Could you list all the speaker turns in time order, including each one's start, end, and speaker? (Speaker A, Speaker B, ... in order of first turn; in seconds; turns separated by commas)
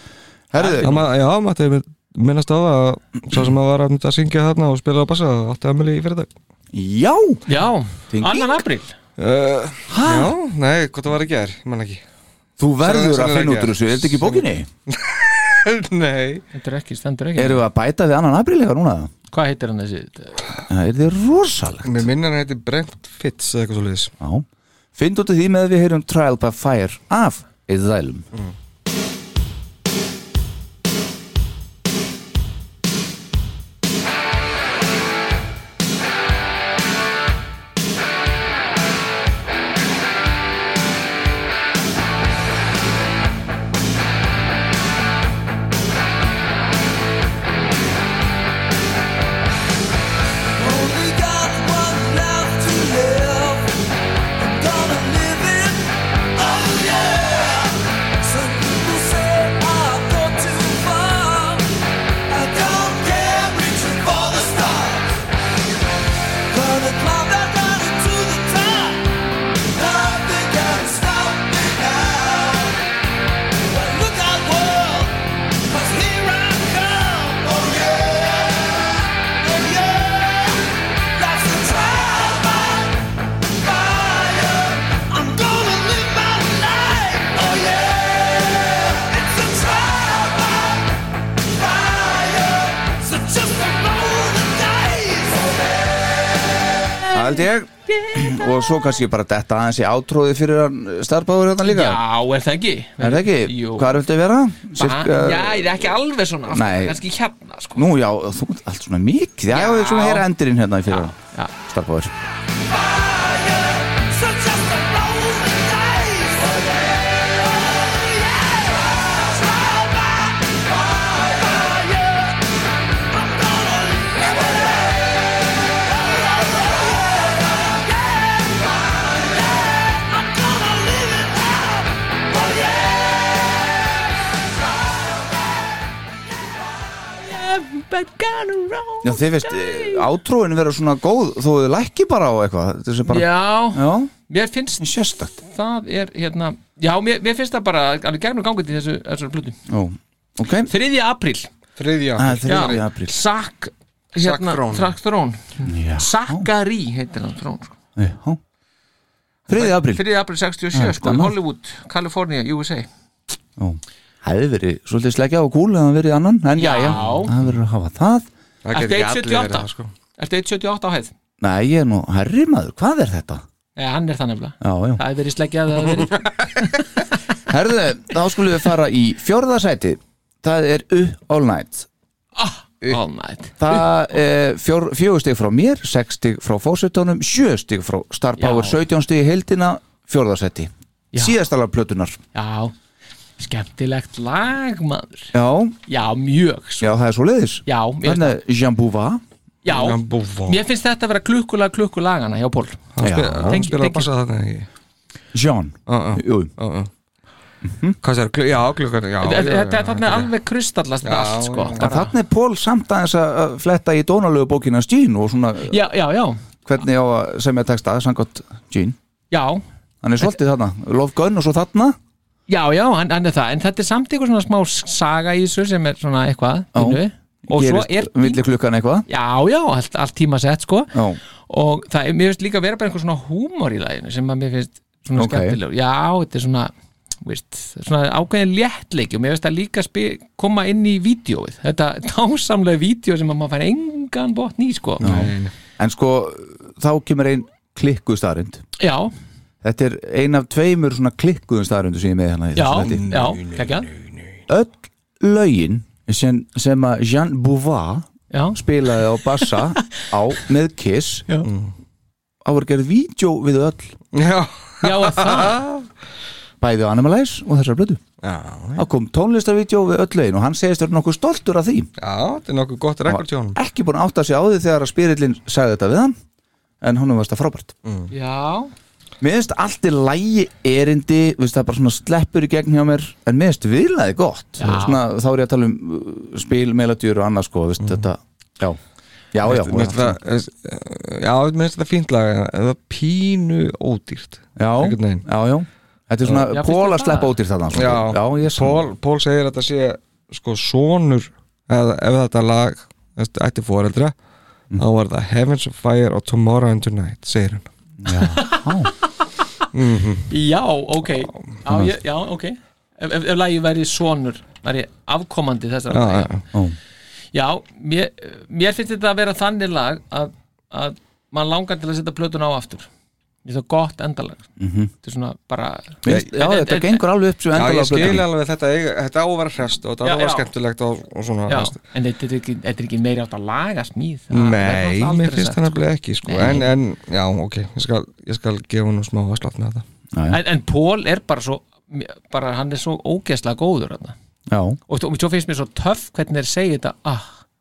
Speaker A: 0.5-1.0, Speaker B: 0.6-1.0, Speaker C: 0.8-6.3, Speaker A: 6.7-7.4, Speaker B: 7.5-8.9, Speaker A: 8.1-8.6, Speaker C: 9.2-12.0, Speaker A: 9.9-10.3, Speaker A: 12.6-14.7, Speaker C: 12.8-16.4, Speaker B: 16.5-17.6, Speaker A: 17.4-19.1, Speaker B: 19.3-20.5, Speaker A: 20.7-22.1, Speaker C: 21.8-24.1, Speaker A: 24.2-24.4, Speaker A: 24.9-28.3, Speaker D: 50.5-53.8, Speaker D: 54.4-61.7, Speaker D: 62.3-65.2, Speaker D: 66.5-72.8, Speaker D: 73.6-83.0, Speaker D: 83.5-90.8, Speaker D: 91.5-96.2, Speaker B: 97.1-97.4, Speaker A: 97.1-102.0, Speaker B: 101.6-104.0, Speaker A: 103.0-105.8, Speaker B: 104.8-107.8, Speaker A: 106.5-107.0, Speaker A: 107.7-112.1, Speaker B: 109.5-110.3, Speaker B: 110.9-111.5, Speaker D: 112.8-122.4, Speaker D: 123.1-125.0, Speaker D: 125.9-129.3, Speaker D: 129.9-133.5, Speaker B: 137.2-140.1, Speaker A: 139.0-144.1, Speaker B: 143.1-144.8, Speaker A: 144.8-145.3, Speaker B: 145.4-149.6, Speaker A: 149.7-150.7, Speaker B: 150.7-151.5, Speaker C: 151.8-152.8, Speaker A: 152.2-153.2, Speaker B: 152.4-157.7, Speaker C: 154.2-154.9, Speaker A: 155.7-156.4, Speaker A: 157.9-158.4, Speaker B: 159.5-162.9, Speaker A: 159.5-160.0, Speaker A: 160.7-161.3, Speaker A: 163.6-168.3, Speaker B: 166.6-167.3, Speaker C: 166.9-167.2, Speaker C: 168.6-169.9, Speaker B: 168.7-171.1, Speaker A: 171.4-173.4, Speaker B: 173.8-177.0, Speaker A: 174.6-175.0, Speaker A: 177.5-181.9, Speaker B: 182.3-183.8, Speaker A: 183.6-192.2, Speaker B: 188.4-188.8, Speaker B: 192.3-192.7, Speaker B: 193.4-195.3, Speaker A: 195.3-195.8, Speaker B: 195.9-196.9, Speaker A: 196.8-199.2, Speaker B: 197.7-198.4, Speaker B: 199.6-202.9, Speaker C: 199.7-200.6, Speaker C: 202.9-204.7, Speaker A: 203.0-203.6, Speaker B: 203.5-204.1, Speaker A: 205.3-206.5, Speaker C: 205.9-206.9, Speaker A: 207.6-208.0, Speaker C: 208.0-210.3, Speaker B: 209.2-212.1, Speaker C: 211.0-211.8, Speaker A: 211.8-215.8, Speaker B: 215.7-216.4, Speaker A: 216.7-218.9, Speaker B: 219.3-219.6, Speaker A: 220.0-221.9, Speaker B: 222.5-228.4, Speaker A: 226.7-229.0, Speaker B: 229.1-245.1, Speaker A: 230.9-231.2, Speaker A: 235.2-235.6, Speaker C: 245.0-245.5, Speaker A: 245.0-248.6, Speaker B: 248.8-249.1, Speaker A: 249.6-253.1, Speaker B: 252.5-253.9, Speaker C: 252.8-254.4, Speaker A: 254.5-261.2, Speaker B: 258.3-259.8, Speaker C: 261.4-261.7, Speaker A: 262.4-263.9, Speaker C: 264.1-265.9, Speaker B: 264.8-265.6, Speaker A: 266.6-268.0, Speaker C: 268.2-268.9, Speaker A: 268.8-271.9, Speaker C: 272.0-273.6, Speaker A: 273.1-276.1, Speaker A: 276.8-277.7, Speaker C: 277.8-278.1, Speaker B: 278.1-278.7, Speaker A: 279.2-288.8, Speaker B: 284.6-285.0, Speaker C: 287.8-288.0, Speaker A: 289.3-290.2, Speaker C: 289.4-295.2, Speaker A: 294.6-298.9, Speaker B: 296.4-297.3, Speaker C: 297.7-304.1, Speaker C: 304.8-307.7, Speaker A: 308.0-308.9, Speaker B: 308.2-309.0, Speaker C: 309.7-310.3, Speaker B: 310.3-316.4, Speaker C: 315.9-316.4, Speaker B: 317.3-322.9, Speaker B: 323.4-324.5, Speaker A: 324.6-324.9, Speaker B: 325.0-327.0, Speaker A: 326.0-328.2, Speaker C: 327.5-331.8, Speaker B: 330.0-330.5, Speaker B: 331.5-336.7, Speaker C: 334.3-339.8, Speaker A: 340.1-340.4, Speaker B: 340.3-344.1, Speaker A: 344.5-344.8, Speaker B: 344.9-347.4